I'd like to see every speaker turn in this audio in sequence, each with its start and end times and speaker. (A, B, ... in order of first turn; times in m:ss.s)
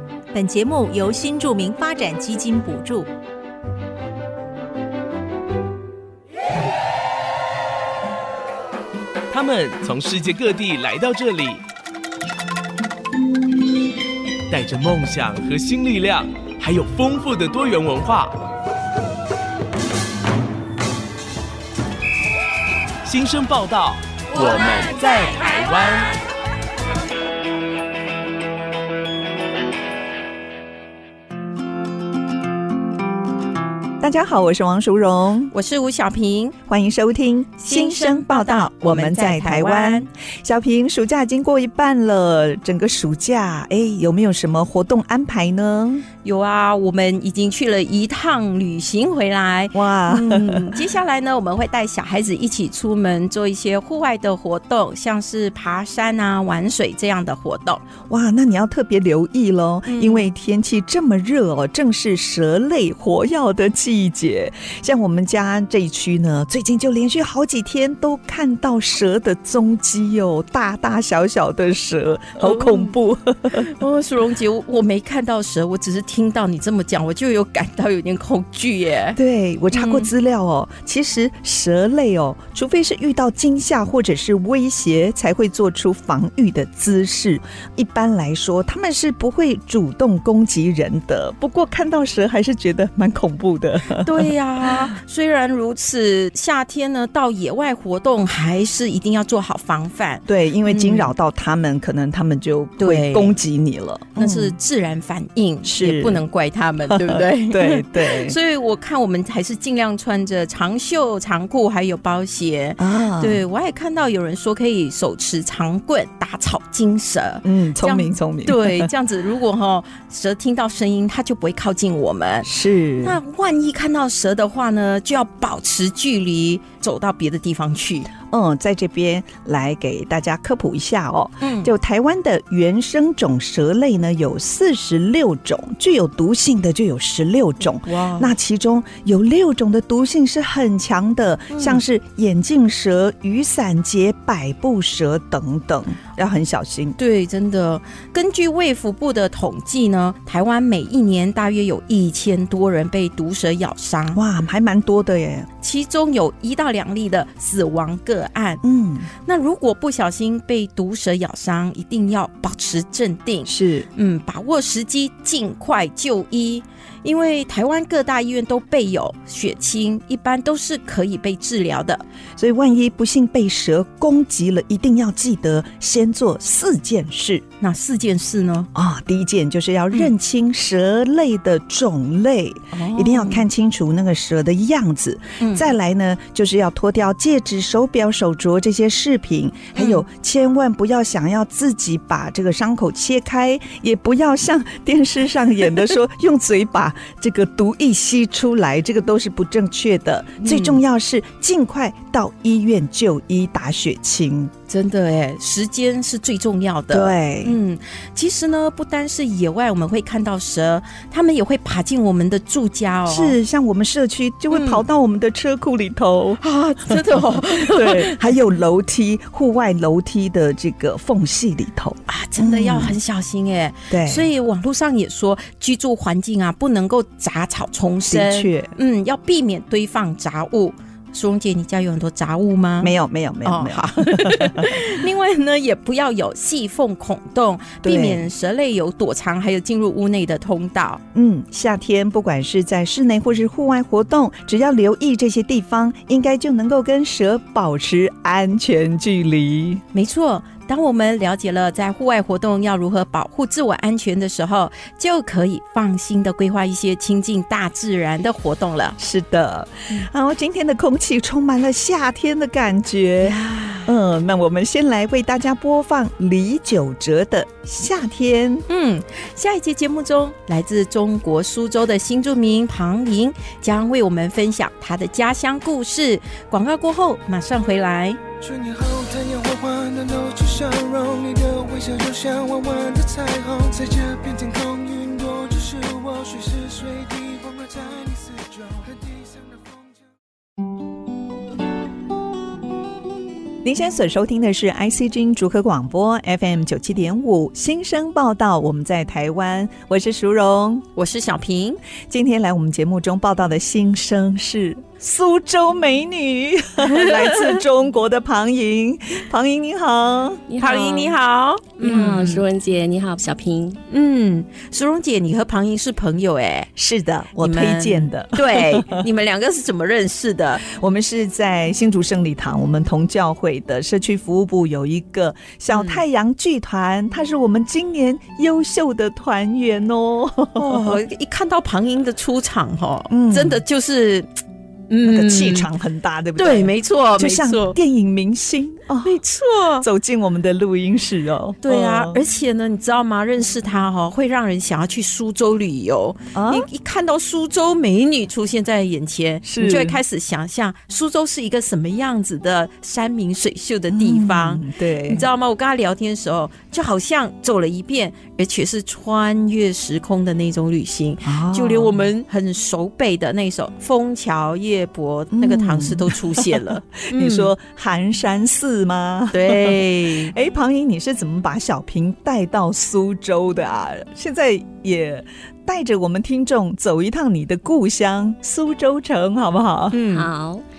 0:00.3-0:03.1 A
0:09.3-0:11.6 B
0:14.5-0:18.4 B
0:23.0-0:26.2 B
0:34.0-0:35.5 C
0:35.5-0:36.6 D
0:36.7-0:46.1 C
0:37.6-0:40.1 D
0:46.2-0:57.8 D
0:49.7-0:50.8 C
0:58.1-1:13.7 C
0:59.9-1:00.3 D
1:12.4-1:13.0 D
1:13.5-1:19.2 D
1:19.2-1:34.8 C
1:19.7-1:20.1 D
1:34.0-1:41.1 D
1:40.3-1:44.6 C
1:42.8-1:43.4 D
1:44.2-2:02.5 D
1:45.6-1:46.2 C
1:46.9-1:48.4 C
1:52.8-1:53.4 C
1:57.4-1:58.9 C
2:02.4-2:03.2 C
2:03.0-2:08.1 D
2:08.2-2:27.0 C
2:11.4-2:11.7 D
2:17.8-2:18.3 D
2:21.5-2:21.8 D
2:27.0-2:34.2 D
2:34.1-2:35.5 C
2:35.6-2:38.6 D
2:38.6-2:39.1 C
2:39.3-2:52.0 D
2:43.4-2:43.9 C
2:52.4-2:57.4 C
2:57.6-2:58.7 D
2:58.7-3:24.5 C
3:02.7-3:03.4 D
3:05.4-3:05.6 D
3:09.8-3:10.0 D
3:20.4-3:20.8 D
3:24.7-3:33.4 D
3:26.9-3:27.6 C
3:33.1-3:43.0 C
3:34.5-3:34.8 D
3:36.4-3:38.4 D
3:42.1-3:52.9 D
3:43.9-3:44.3 C
3:48.1-3:48.7 C
3:52.8-3:54.9 C
3:53.4-4:01.0 D
3:57.8-3:58.3 C
4:01.1-4:09.8 C
4:09.9-4:19.0 D
4:19.0-4:28.6 C
4:23.2-4:23.9 D
4:28.7-4:38.2 D
4:38.4-4:50.1 E
4:53.6-5:00.8 C
5:01.0-5:01.8 D
5:02.1-5:10.4 C
5:06.9-5:07.6 D
5:10.5-5:11.2 F
5:10.6-5:12.4 D
5:11.8-5:13.8 F
5:13.9-5:16.7 D
5:16.8-5:19.1 C
5:17.4-5:20.6 D
5:20.6-5:31.0 C
5:25.7-5:26.0 D
5:30.6-5:34.3 D
5:33.1-5:33.6 C
5:34.9-5:35.7 D
5:35.0-5:39.2 C
5:36.4-5:37.8 D
5:39.0-5:39.9 D
5:39.8-5:42.2 C
5:41.6-6:07.5 D
5:46.3-5:46.7 C
5:49.4-5:50.0 C
5:53.9-5:55.3 C
6:01.2-6:02.1 C
6:05.3-6:20.0 C
6:09.3-6:10.3 D
6:19.9-6:20.3 D
6:20.1-6:20.6 F